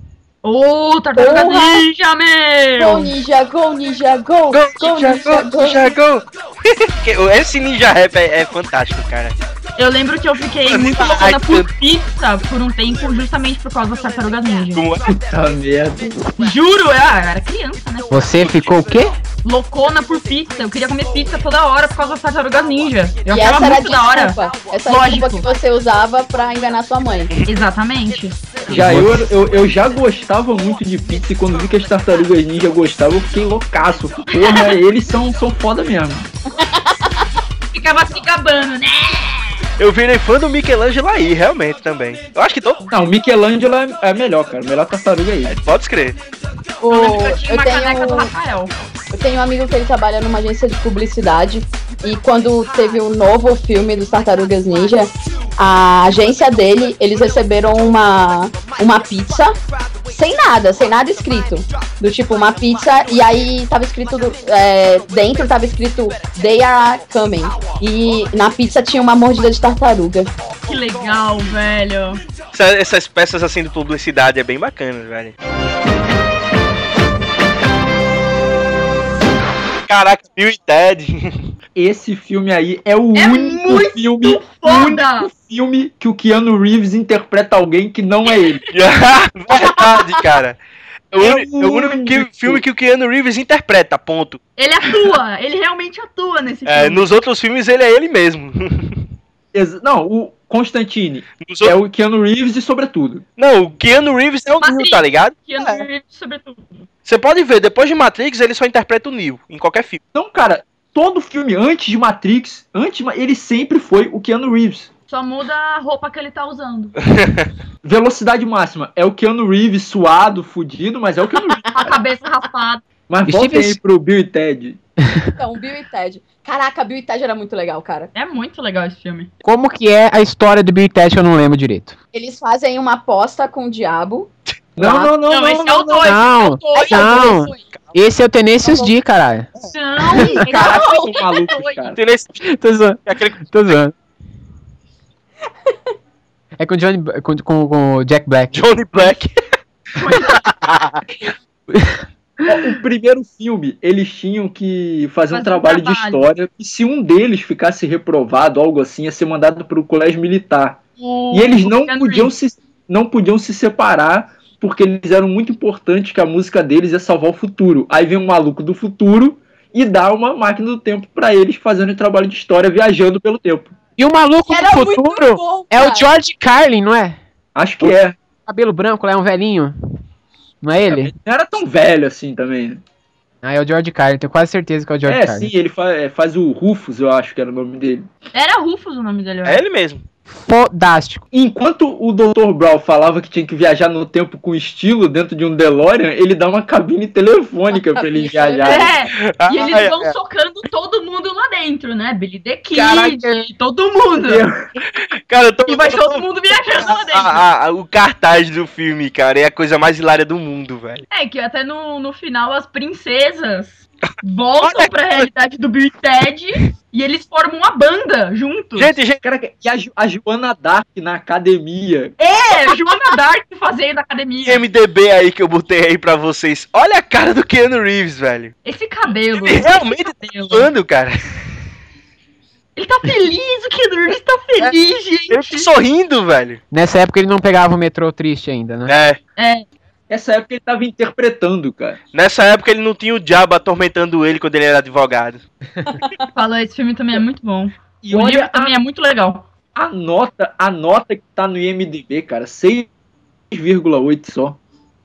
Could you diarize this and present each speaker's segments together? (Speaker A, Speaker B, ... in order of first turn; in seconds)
Speaker A: 0.4-3.1, 9.8-14.8, 16.4-18.6, 19.4-25.5, 27.4-28.6, 37.7-39.6, 46.9-48.7, 70.7-72.2, 83.1-85.3, 89.8-90.2, 94.6-97.0, 104.6-106.8, 115.1-117.0, 121.7-122.8, 128.1-129.3, 135.3-137.6, 139.7-141.8, 150.0-150.4, 155.3-156.2, 161.0-162.3, 188.3-189.6, 198.6-204.4, 205.7-207.4, 211.1-218.9, 222.2-224.6, 228.6-230.7, 232.8-235.7, 239.4-239.7, 246.3-249.5
Speaker B: 1.1-1.8, 2.8-6.0, 23.3-27.3, 36.6-37.3, 46.8-48.3, 49.1-59.6, 60.1-70.3, 125.3-128.1, 132.1-134.3, 138.6-138.9, 140.2-141.0, 174.5-176.1, 197.7-198.9, 246.0-246.2
Speaker C: 4.5-9.4, 10.7-11.7, 14.7-15.1, 39.8-42.9, 45.5-46.2, 72.5-75.3, 79.8-81.5, 88.7-90.6, 91.1-94.4, 96.7-99.0, 101.4-101.7, 103.4-105.8, 107.0-110.0, 117.0-117.5, 136.7-138.0, 141.9-142.5, 143.1-143.4, 148.5-149.3, 150.3-151.0, 189.4-190.0, 199.1-200.1, 202.8-203.4, 204.9-206.2, 206.8-211.0, 214.6-215.3, 218.8-219.2, 224.4-228.5, 229.4-231.3, 235.3-236.6, 238.9-239.2, 242.1-245.4
Speaker D: 15.1-16.1, 28.7-36.3, 42.9-45.6, 81.7-88.6, 91.2-92.6, 99.5-103.2, 110.1-114.9, 117.8-121.9, 123.1-124.8, 134.8-136.2, 140.3-142.0, 152.4-160.8, 161.3-173.7, 177.5-178.2, 181.0-182.8, 185.1-188.1, 191.3-198.9, 204.2-204.6, 219.2-222.2, 240.1-242.0, 248.0-248.8, 249.8-252.9, 253.5-254.6
Speaker E: 18.1-19.1, 28.7-29.2, 123.3-123.8, 129.4-132.0, 136.0-139.6, 142.4-143.9, 146.6-148.6, 151.7-152.0, 174.0-177.2, 178.5-179.7, 180.6-181.1, 183.4-185.5, 190.3-191.2, 236.7-238.9